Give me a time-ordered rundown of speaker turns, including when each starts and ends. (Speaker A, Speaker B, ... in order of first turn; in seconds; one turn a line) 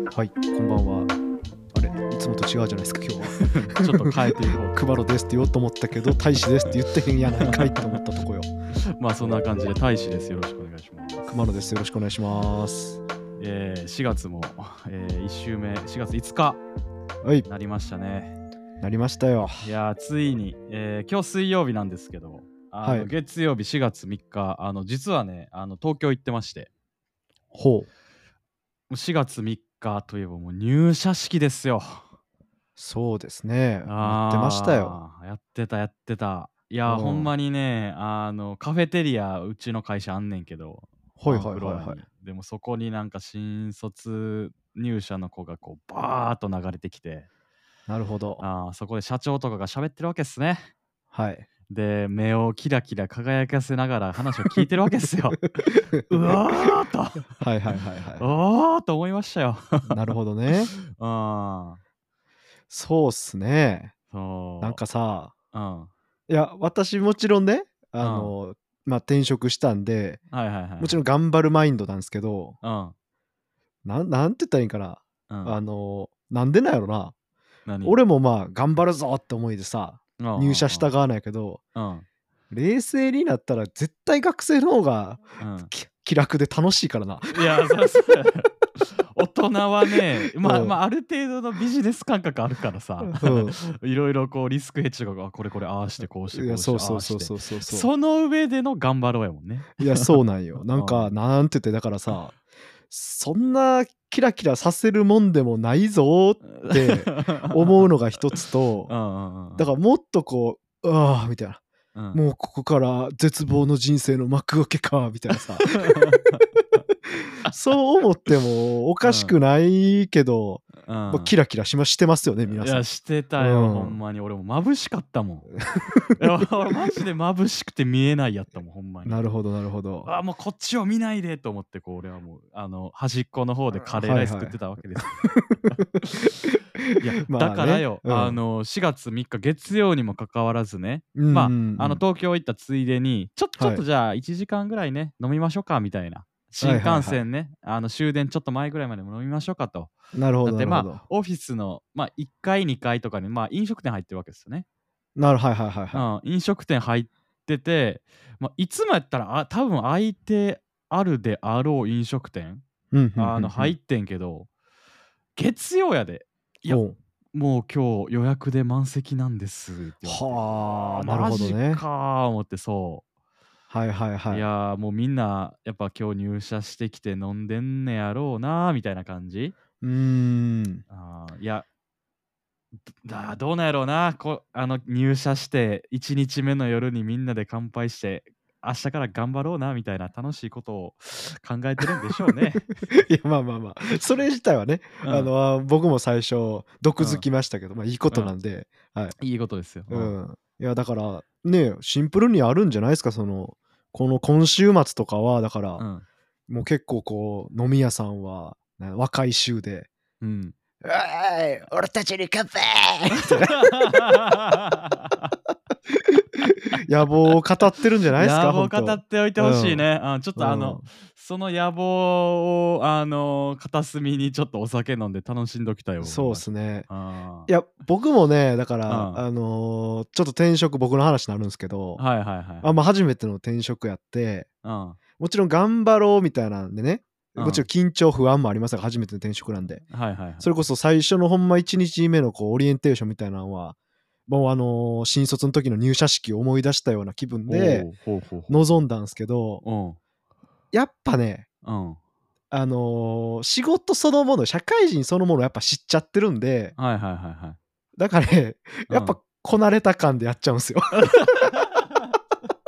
Speaker A: 0.1-1.1
Speaker A: 1.7-8.5
Speaker B: 3.4-4.8
Speaker B: 7.4-8.0
Speaker B: 8.8-11.3
Speaker A: 11.3-13.0
Speaker B: 13.4-16.6
Speaker B: 17.4-18.3
Speaker A: 18.8-19.6
Speaker B: 19.6-26.7
Speaker A: 22.8-23.1
Speaker A: 27.5-27.9
Speaker B: 28.9-32.1
Speaker A: 32.8-35.0
Speaker B: 33.9-47.3
Speaker A: 36.9-37.3
Speaker A: 41.2-42.0
Speaker A: 47.9-48.4
Speaker B: 48.4-50.7
Speaker A: 51.1-51.5
Speaker B: 51.7-55.4
Speaker A: 55.6-56.7
Speaker B: 56.1-57.4
Speaker A: 57.3-58.2
Speaker B: 58.2-60.0
Speaker A: 59.9-60.7
Speaker B: 60.5-61.8
Speaker A: 62.7-63.9
Speaker B: 64.1-64.8
Speaker A: 64.6-65.3
Speaker B: 65.5-65.9
Speaker A: 66.3-70.2
Speaker B: 68.0-68.3
Speaker B: 70.3-71.0
Speaker A: 70.8-72.6
Speaker B: 72.6-72.9
Speaker A: 73.8-77.1
Speaker B: 75.3-75.6
Speaker B: 77.7-78.0
Speaker A: 77.8-81.6
Speaker B: 80.2-80.9
Speaker B: 81.7-82.0
Speaker A: 82.5-87.6
Speaker B: 85.4-85.7
Speaker B: 87.3-100.1
Speaker A: 90.4-90.8
Speaker A: 93.0-93.6
Speaker A: 96.3-97.9
Speaker A: 99.8-102.4
Speaker B: 100.7-101.1
Speaker A: 102.9-108.9
Speaker B: 106.5-107.9
Speaker B: 108.9-109.7
Speaker A: 109.5-111.6
Speaker B: 111.9-112.2
Speaker A: 112.1-115.8
Speaker B: 115.6-116.5
Speaker A: 117.4-122.8
Speaker B: 119.0-119.3
Speaker B: 120.8-121.3
Speaker B: 122.5-125.6
Speaker A: 123.4-124.0
Speaker A: 125.7-126.2
Speaker B: 126.1-129.2
Speaker A: 129.0-130.1
Speaker B: 130.0-136.3
Speaker A: 133.8-134.6
Speaker A: 135.2-138.4
Speaker B: 137.0-149.9
Speaker A: 141.2-142.0
Speaker A: 143.6-143.8
Speaker A: 146.6-147.2
Speaker A: 150.1-151.0
Speaker B: 150.4-154.7
Speaker A: 155.2-156.0
Speaker B: 155.9-162.6
Speaker A: 162.9-163.7
Speaker B: 163.2-164.5
Speaker B: 165.3-166.8
Speaker A: 166.7-166.9
Speaker B: 167.3-173.0
Speaker A: 170.1-171.8
Speaker A: 173.7-174.4
Speaker B: 174.3-179.6
Speaker A: 179.8-180.8
Speaker B: 180.9-181.7
Speaker B: 183.0-192.7
Speaker A: 192.3-199.2
Speaker B: 195.0-195.3
Speaker B: 197.0-197.2
Speaker B: 199.2-200.2
Speaker A: 199.9-205.8
Speaker B: 205.8-206.0
Speaker A: 206.5-209.9
Speaker B: 210.2-210.5
Speaker A: 210.8-214.2
Speaker B: 213.1-215.3
Speaker A: 215.9-220.8
Speaker B: 218.2-227.5
Speaker A: 226.0-226.9
Speaker A: 227.5-232.0
Speaker B: 228.9-229.2
Speaker B: 231.9-232.7
Speaker A: 232.6-234.5
Speaker B: 234.6-235.0
Speaker A: 235.2-243.8
Speaker B: 237.3-237.7
Speaker B: 239.9-240.5
Speaker A: 244.3-247.9
Speaker B: 247.5-248.7
Speaker A: 248.5-249.6
Speaker B: 249.6-250.0
Speaker A: 250.7-251.4
Speaker B: 251.6-252.0
Speaker A: 252.5-256.7
Speaker B: 256.8-257.6
Speaker A: 258.0-261.6
Speaker B: 258.9-259.2
Speaker B: 261.0-262.1